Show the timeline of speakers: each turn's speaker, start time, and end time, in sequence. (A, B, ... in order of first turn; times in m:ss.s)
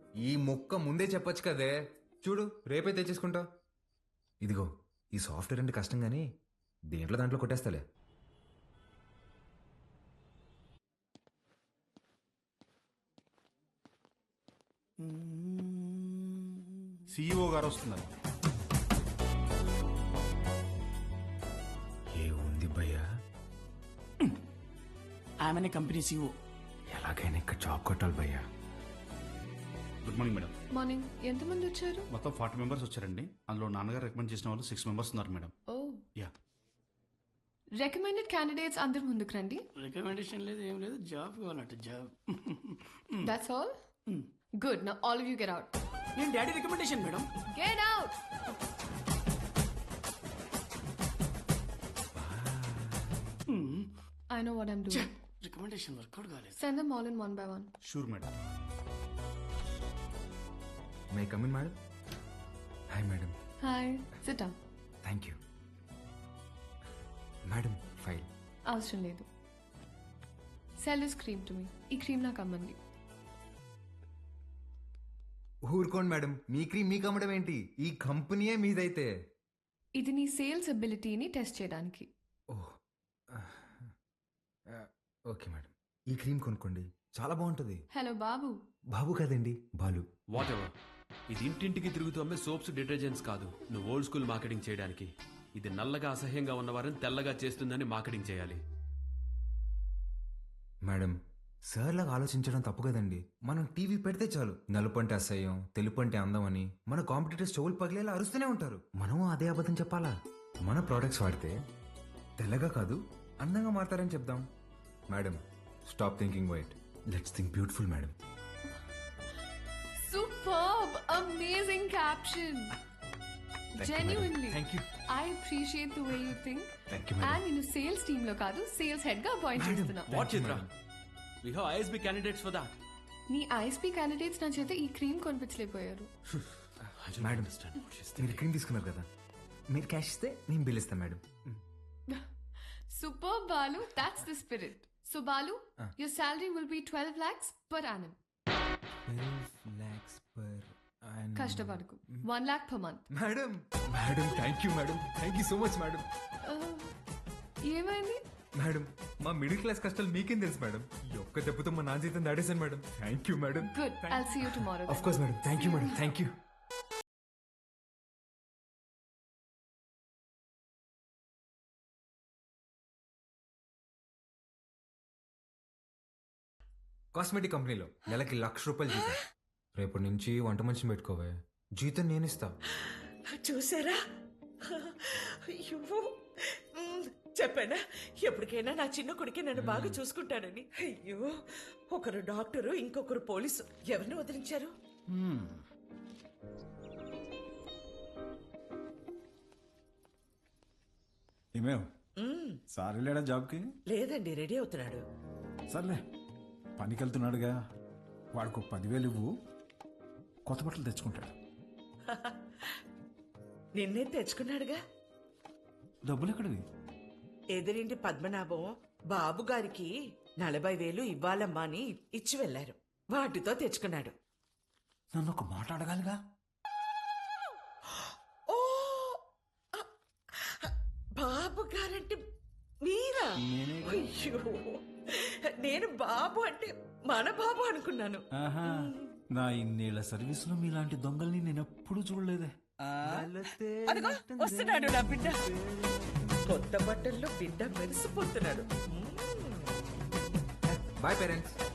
0:00.2-0:03.4 A
0:04.4-0:06.2 A
0:06.9-0:07.8 A
0:15.0-0:16.4 B
0:17.1-0:18.0 C
0:22.1-0:23.0 A
0:25.4-0:26.3 B
0:26.9-0:28.4 A
0:30.0-0:30.5 C
0:30.7-0:32.1 D
0:32.1-0:35.5 C
0:35.7-0:36.0 D
0:37.8-0:39.6 D
0:39.8-0:42.6 B
0:43.2-0:43.7 D
0:44.6-0:45.7 D
0:46.2-0:47.3 B
0:47.5-0:48.2 D
0:52.2-0:52.8 A
0:53.5-0:53.9 B
0:54.3-0:55.1 D
0:54.9-0:56.6 B
0:56.6-0:57.7 D
0:57.8-0:58.3 C
1:01.1-1:01.7 A
1:02.9-1:03.3 A
1:03.6-1:04.5 D
1:05.0-1:05.4 A
1:07.5-1:08.3 A
1:08.7-1:09.3 D
1:10.8-1:12.8 D
1:15.7-1:19.1 A
1:20.0-1:22.1 D
1:23.3-1:23.9 A
1:24.7-1:27.8 A
1:27.9-1:28.5 D
1:28.9-1:30.0 A
1:30.3-1:30.7 E
1:31.3-1:38.6 E
1:40.8-1:41.2 A
1:41.7-1:50.1 A
1:50.6-1:51.6 A
1:52.4-1:54.4 A
1:55.1-1:58.1 A
2:00.0-2:02.7 D
2:03.8-2:04.8 A
2:03.8-2:10.1 D
2:06.9-2:07.4 A
2:09.6-2:10.7 A
2:10.1-2:10.7 E
2:11.4-2:12.7 E
2:13.3-2:16.1 D
2:17.0-2:18.5 E
2:17.2-2:17.5 A
2:18.2-2:19.0 A
2:19.7-2:21.6 A
2:22.9-2:28.2 D
2:29.1-2:31.8 A
2:31.4-2:33.0 D
2:33.1-2:36.0 A
2:36.4-2:36.9 D
2:37.6-2:38.2 D
2:38.6-2:46.3 A
2:43.6-2:46.0 D
2:57.1-2:59.2 A
2:59.8-3:02.5 A
3:03.4-3:04.0 F
3:04.7-3:06.0 F
3:06.8-3:11.3 F
3:09.5-3:10.0 A
3:11.9-3:14.7 F
3:15.1-3:15.6 G
3:21.6-3:21.9 G
3:22.2-3:22.6 F
3:22.7-3:23.7 G
3:23.9-3:25.0 F
3:25.7-3:26.0 G
3:26.8-3:27.6 G
3:28.3-3:29.3 G
3:30.4-3:31.4 G
3:32.1-3:32.4 F
3:33.8-3:34.8 F
3:36.0-3:36.6 G
3:37.5-3:39.9 F
3:40.4-3:44.1 F
3:45.1-3:46.2 G
3:48.5-3:49.2 F
3:50.6-3:52.2 F
3:52.8-3:58.2 F
3:53.4-3:54.1 G
3:58.4-4:02.5 G
4:03.0-4:06.2 A
4:03.9-4:05.4 F
4:06.4-4:09.6 F
4:10.7-4:11.6 A